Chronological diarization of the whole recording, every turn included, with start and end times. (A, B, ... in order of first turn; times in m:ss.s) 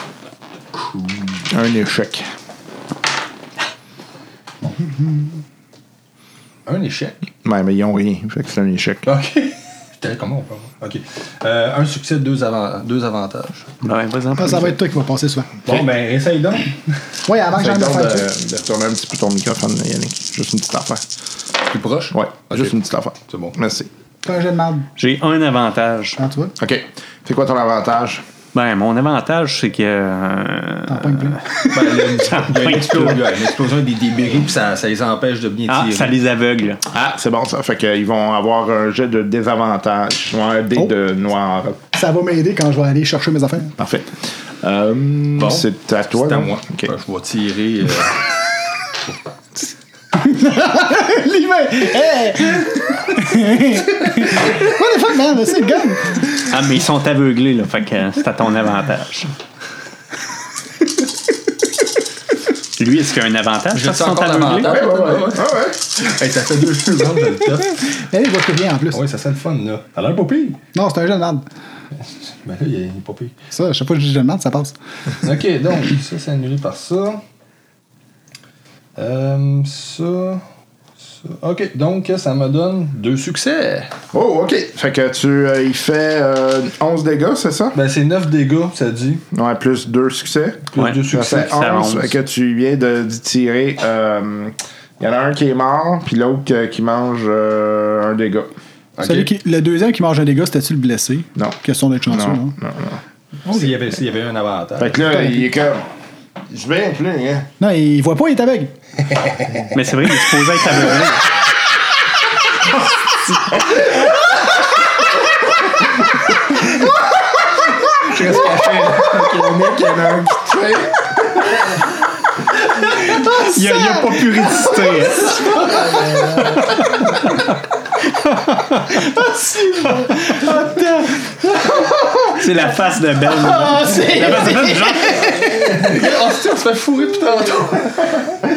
0:01.5-0:02.3 A
0:04.6-0:05.4 B
0:06.7-0:07.2 C
0:07.4-0:09.0 A
0:09.0-0:13.7 C
0:13.8-0:14.8 D
0:14.4-0:15.5 B
0:15.6-0:17.0 C
0:17.3-0:18.3 B
0:17.6-0:21.0 A
0:21.6-0:22.7 C
0:22.1-0:23.9 A
0:23.3-0:23.6 C
0:24.2-0:24.9 B
0:25.0-0:26.2 D
0:26.2-0:26.5 B
0:26.6-0:28.2 A
0:28.5-0:33.4 D
0:30.9-0:31.5 B
0:31.7-0:36.1 C
0:35.7-0:36.8 D
0:36.9-0:41.8 A
0:41.9-0:43.8 B
0:43.8-0:46.9 A
0:45.4-0:48.2 C
0:50.2-0:56.3 B
0:56.3-0:59.3 D
1:02.8-1:04.9 D
1:03.7-1:07.8 C
1:04.6-1:05.8 A
1:07.9-1:09.0 B
1:08.9-1:10.6 C
1:10.7-1:11.5 B
1:12.0-1:13.4 C
1:13.5-1:14.8 B
1:15.2-1:17.2 C
1:19.0-1:20.4 C
1:21.1-1:23.9 C
1:24.1-1:27.8 A
1:27.7-1:29.2 C
1:29.3-1:38.5 A
1:30.7-1:31.6 C
1:30.8-1:32.1 D
1:39.0-1:39.3 C
1:39.0-1:42.6 B
1:41.4-1:43.0 A
1:43.4-1:45.0 C
1:44.8-1:45.9 A
1:45.0-1:45.5 B
1:46.5-1:47.5 A
1:47.6-1:48.8 B
1:49.7-1:51.3 D
1:56.5-2:01.6 A
2:03.0-2:06.7 B
2:03.1-2:06.0 D
2:08.3-2:08.9 D
2:08.9-2:15.9 B
2:10.0-2:10.9 D
2:12.2-2:15.5 D
2:15.7-2:18.2 C